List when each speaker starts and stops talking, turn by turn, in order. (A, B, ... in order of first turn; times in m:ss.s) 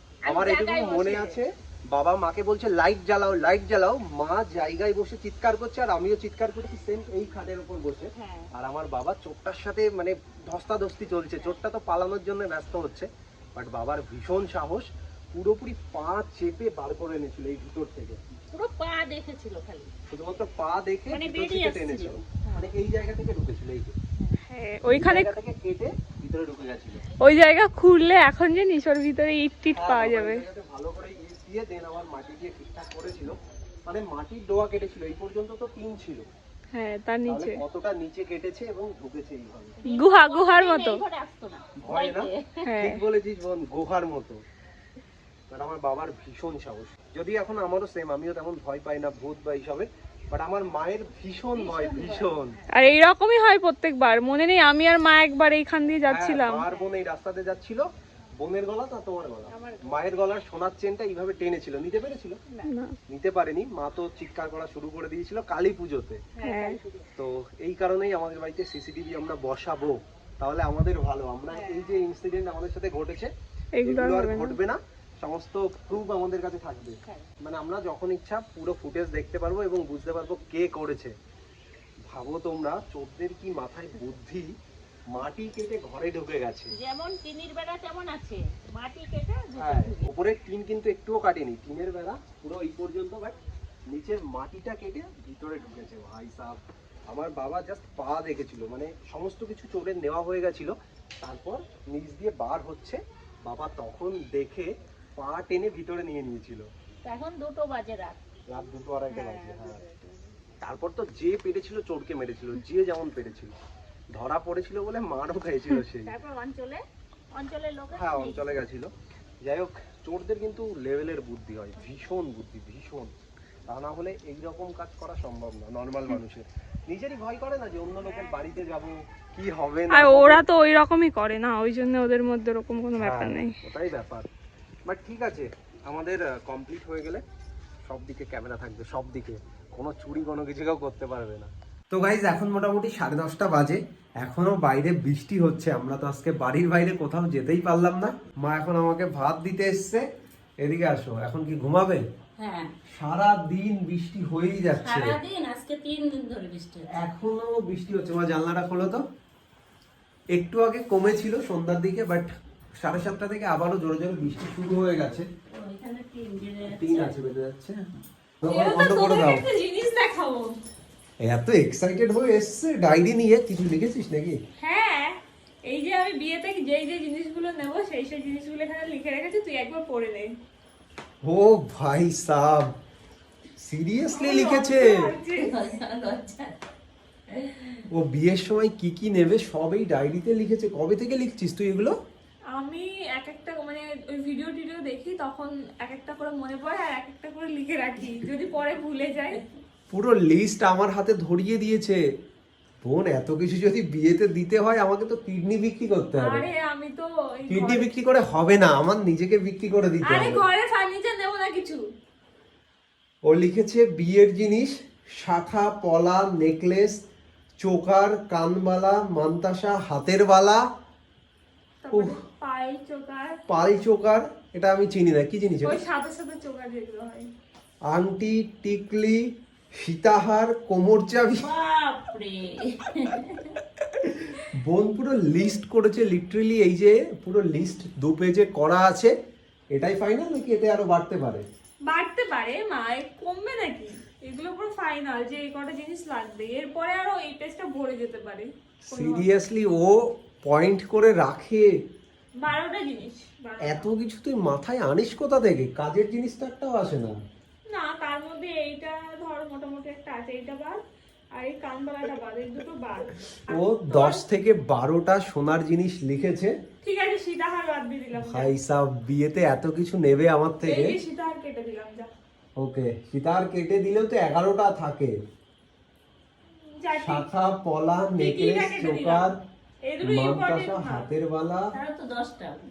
0:00.2-0:01.4 A
0:00.3-0:18.2 B
0:08.1-0:08.5 A
0:18.5-0:19.9 A
0:20.1-0:24.0 B
0:21.1-0:22.7 A
0:24.4-0:25.3 C
0:24.9-0:27.0 B
0:27.2-0:30.4 C
0:29.8-0:36.3 B
0:36.7-0:37.6 C
0:37.3-0:39.8 B
0:39.8-0:42.7 A
0:39.9-0:41.0 C
0:41.8-0:44.4 B
0:42.6-0:43.0 C
0:45.5-0:52.6 B
0:51.5-0:52.7 A
0:52.7-0:56.6 C
0:56.1-0:57.8 B
0:56.7-0:57.0 A
0:58.4-1:02.4 B
0:59.5-1:00.1 A
1:02.7-1:02.9 C
1:03.1-1:06.2 B
1:06.4-1:07.1 A
1:06.4-1:06.8 C
1:07.2-1:13.3 B
1:11.5-1:12.0 A
1:13.8-1:14.6 C
1:13.9-1:21.1 B
1:22.1-1:24.5 B
1:25.1-1:26.7 B
1:26.8-1:30.1 A
1:29.6-1:33.4 B
1:33.9-1:46.7 B
1:47.0-1:48.2 A
1:48.5-1:49.8 B
1:49.1-1:50.3 A
1:50.6-1:53.5 B
1:54.1-1:56.1 B
1:56.0-1:56.8 A
1:57.3-1:58.5 A
1:57.9-1:58.9 B
1:59.4-2:03.1 B
2:03.7-2:10.4 B
2:09.9-2:13.6 C
2:13.0-2:14.3 B
2:14.9-2:17.2 B
2:17.9-2:30.0 B
2:30.6-2:32.0 B
2:32.4-2:32.7 A
2:33.0-2:35.2 B
2:34.8-2:36.9 A
2:36.9-2:39.0 B
2:40.3-2:45.3 B
2:45.5-2:47.2 A
2:46.6-2:47.8 B
2:48.4-2:49.4 B
2:48.4-2:50.5 C
2:51.2-2:54.4 B
2:54.6-3:00.3 C
3:01.2-3:02.7 B
3:03.6-3:05.1 B
3:04.1-3:05.5 C
3:05.4-3:06.6 A
3:07.3-3:07.8 A
3:07.9-3:11.9 B
3:12.5-3:19.4 C
3:19.9-3:22.0 B
3:22.8-3:26.5 B
3:26.2-3:27.9 C
3:27.5-3:30.4 B
3:30.0-3:31.8 C
3:33.3-3:37.0 B
3:37.6-3:40.6 B
3:41.8-3:43.4 C
3:41.9-3:42.2 B
3:43.5-3:45.8 B
3:45.6-3:47.3 C
3:47.9-3:49.3 B
3:49.8-3:51.5 B
3:51.4-3:53.6 A
3:53.8-3:59.1 B
3:59.7-4:01.4 B
4:01.9-4:09.3 C
4:08.9-4:11.7 B
4:12.4-4:13.9 C
4:13.6-4:17.2 B
4:17.7-4:20.8 C
4:21.4-4:24.2 C
4:23.5-4:26.5 B
4:26.8-4:28.5 C
4:28.2-4:31.0 B
4:30.6-4:32.1 C
4:32.6-4:35.2 B
4:36.8-4:37.3 C
4:37.0-4:39.4 B
4:38.2-4:39.3 C
4:39.9-4:41.1 C
4:40.0-4:41.7 B
4:41.7-4:42.6 A